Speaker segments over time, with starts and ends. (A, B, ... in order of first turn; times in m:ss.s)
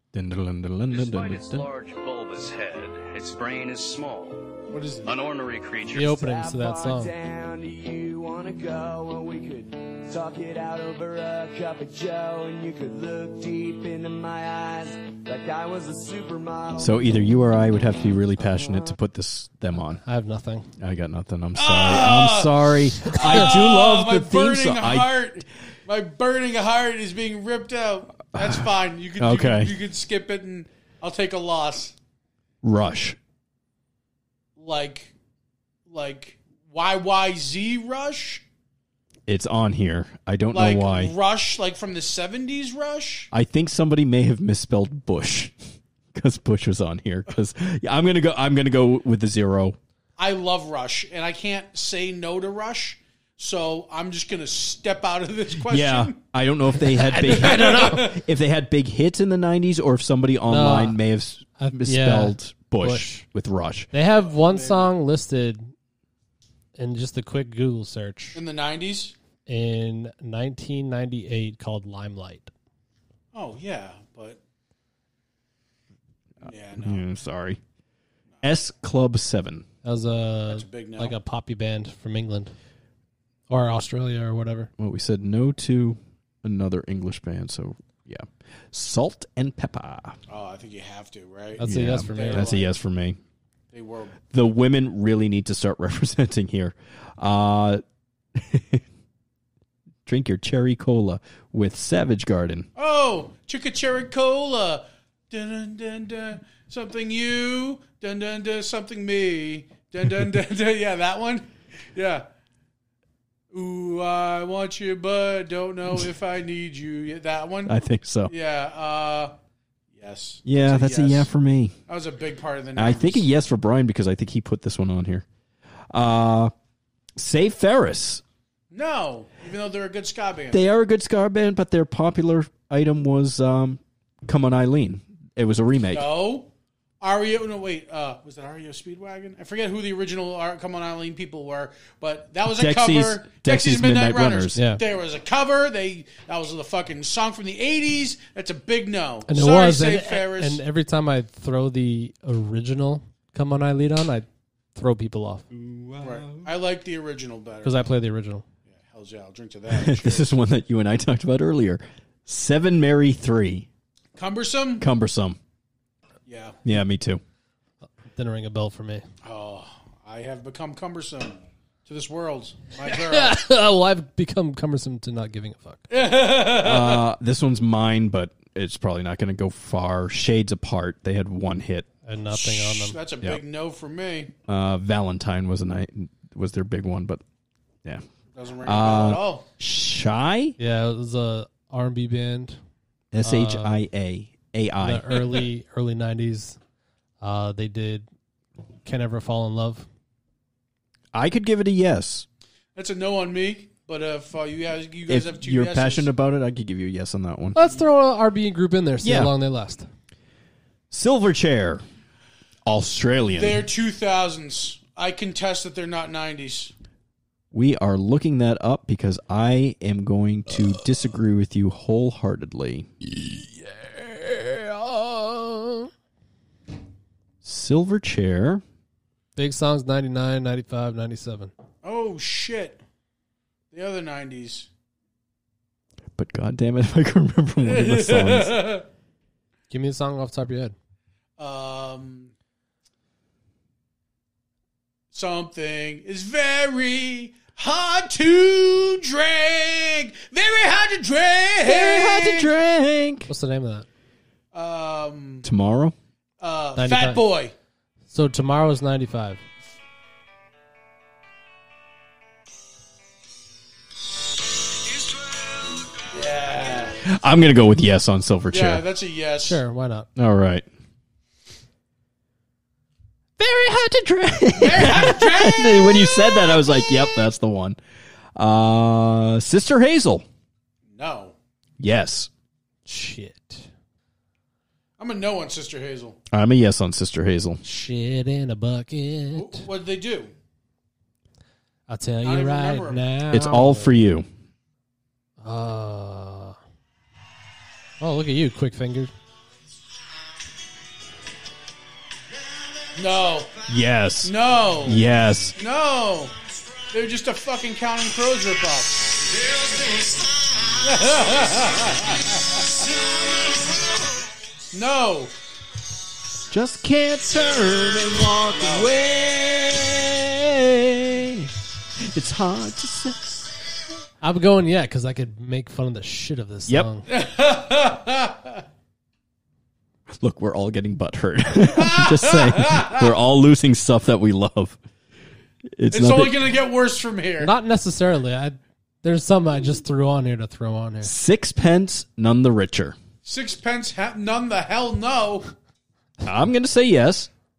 0:00.1-0:01.7 A
0:00.9-0:06.2 B
0:04.7-0:05.2 C
0:05.9-0:07.1 D
0:06.1-0:17.0 E
0:16.8-0:20.0 A
0:20.0-0:20.7 D
0:20.8-0:25.1 A
0:21.6-0:31.9 C
0:28.3-0:28.7 A
0:29.2-0:29.7 A
0:32.6-0:33.2 A
0:34.6-0:35.1 C
0:35.9-0:38.4 C
0:39.3-0:41.1 A
0:40.5-0:43.3 C
0:43.3-0:45.5 A
0:46.1-0:49.8 A
0:50.2-0:56.2 C
0:55.6-1:03.9 A
0:56.9-0:58.2 C
0:57.1-0:57.7 D
1:00.5-1:01.0 D
1:01.6-1:03.2 D
1:03.9-1:05.7 D
1:04.1-1:04.9 C
1:06.8-1:08.4 D
1:08.3-1:09.1 C
1:09.5-1:12.5 D
1:13.3-1:14.4 C
1:16.4-1:17.0 C
1:16.8-1:17.6 A
1:18.4-1:19.6 A
1:19.8-1:22.5 D
1:20.5-1:21.2 C
1:23.5-1:24.7 D
1:24.8-1:30.2 A
1:30.3-1:32.7 C
1:31.6-1:32.5 D
1:31.6-1:33.2 A
1:33.7-1:34.2 C
1:34.3-1:37.8 A
1:38.3-1:38.8 A
1:40.0-1:42.7 A
1:42.8-1:52.2 C
1:53.5-1:59.3 C
1:57.7-1:58.3 A
1:59.9-2:01.3 C
2:00.4-2:01.7 A
2:01.9-2:03.3 C
2:02.8-2:05.2 A
2:05.9-2:06.5 A
2:07.2-2:08.2 A
2:08.7-2:10.6 C
2:10.5-2:16.1 A
2:15.9-2:30.6 C
2:22.4-2:24.6 A
2:24.5-2:24.8 D
2:29.3-2:35.4 D
2:35.5-2:36.5 A
2:36.0-2:37.9 C
2:37.6-2:38.4 D
2:38.7-2:40.3 C
2:39.7-2:43.7 A
2:44.2-2:44.9 C
2:44.8-2:45.4 A
2:46.3-2:46.6 C
2:46.6-2:47.2 A
2:48.1-2:49.0 D
2:49.2-2:53.4 C
2:52.8-2:55.8 D
2:55.9-2:57.0 C
2:56.6-3:01.9 A
3:02.0-3:03.0 D
3:02.3-3:04.3 C
3:04.5-3:07.2 A
3:08.3-3:09.4 C
3:08.6-3:10.6 A
3:10.6-3:12.6 D
3:13.1-3:15.3 A
3:13.2-3:13.8 D
3:14.8-3:16.6 D
3:17.2-3:18.0 D
3:18.8-3:19.9 D
3:21.1-3:22.3 A
3:22.7-3:26.1 C
3:25.1-3:27.6 A
3:27.5-3:29.9 D
3:29.0-3:29.3 A
3:30.9-3:31.8 A
3:32.6-3:33.6 A
3:33.4-3:36.7 C
3:37.5-3:42.9 A
3:43.6-3:45.9 D
3:47.4-3:48.6 A
3:49.4-3:51.5 D
3:51.8-3:52.8 C
3:53.7-3:54.7 C
3:56.2-3:58.7 A
3:57.6-3:58.8 C
3:59.7-4:00.7 D
4:01.4-4:02.3 C
4:05.1-4:12.5 C
4:11.6-4:13.3 A
4:13.3-4:13.9 D
4:14.5-4:15.5 C
4:15.4-4:16.0 A
4:16.4-4:17.5 C
4:16.8-4:17.2 D
4:18.1-4:19.4 D
4:26.1-4:27.0 C
4:27.0-4:28.8 A
4:28.5-4:29.6 C
4:29.4-4:30.1 D
4:30.2-4:30.6 A
4:33.4-4:37.8 A
4:34.6-4:36.5 C
4:38.4-4:40.2 A
4:40.9-4:41.4 C
4:41.8-4:42.3 A
4:42.9-4:43.7 D
4:45.0-4:46.2 C
4:46.3-4:47.6 A
4:47.6-4:49.6 D
4:49.4-4:50.3 C
4:51.9-4:53.9 D
4:52.2-4:53.1 C
4:53.3-4:54.3 A
4:55.4-4:56.6 D
4:58.0-4:59.1 D
5:03.0-5:03.5 C
5:03.7-5:05.6 A
5:04.2-5:05.0 C
5:05.6-5:06.3 C
5:06.9-5:09.1 C
5:09.1-5:10.7 E
5:10.8-5:12.6 C
5:12.8-5:13.9 E
5:14.7-5:15.4 C
5:16.5-5:23.5 A
5:24.2-5:27.1 D
5:27.1-5:28.6 C
5:30.1-5:34.8 A
5:31.7-5:33.0 C
5:35.8-5:36.4 A
5:35.9-5:37.5 C
5:37.4-5:41.1 D
5:41.0-5:43.0 A
5:43.2-5:45.5 C
5:46.2-5:47.3 A